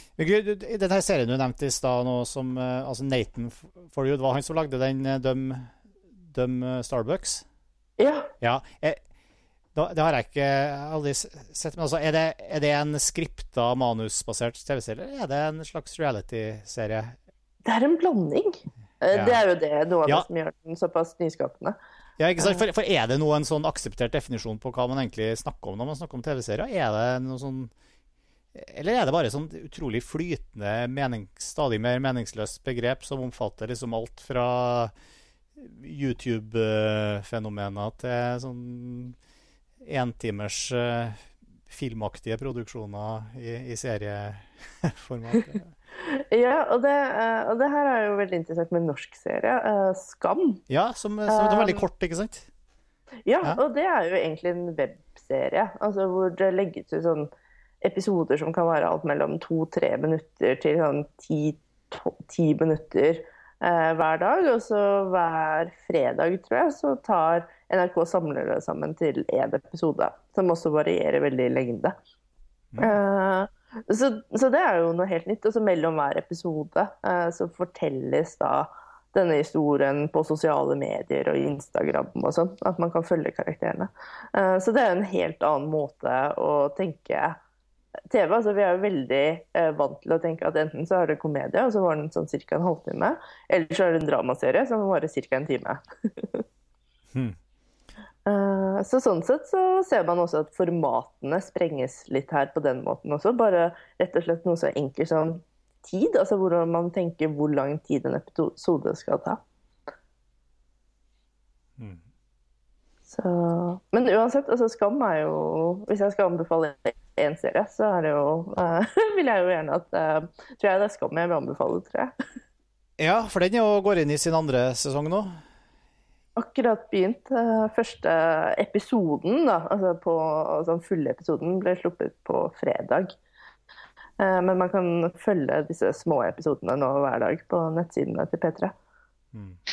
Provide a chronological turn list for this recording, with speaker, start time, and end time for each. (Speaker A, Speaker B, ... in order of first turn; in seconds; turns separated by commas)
Speaker A: 0.2-5.7, Speaker A: 6.3-7.4, Speaker B: 8.0-8.3, Speaker A: 8.4-9.0, Speaker A: 9.7-17.1, Speaker B: 17.6-21.8, Speaker A: 19.1-19.4, Speaker A: 22.2-27.7, Speaker B: 22.4-22.6, Speaker A: 28.5-34.9, Speaker A: 35.5-39.1, Speaker A: 39.8-45.7, Speaker B: 46.0-50.6, Speaker A: 50.7-52.5, Speaker B: 51.3-51.8, Speaker B: 53.2-57.3, Speaker B: 57.8-72.0, Speaker A: 72.7-73.0, Speaker B: 72.8-87.4, Speaker B: 88.1-96.4, Speaker B: 98.2-109.4, Speaker B: 113.1-122.1, Speaker A: 123.0-125.4, Speaker B: 126.3-133.2, Speaker B: 134.2-138.7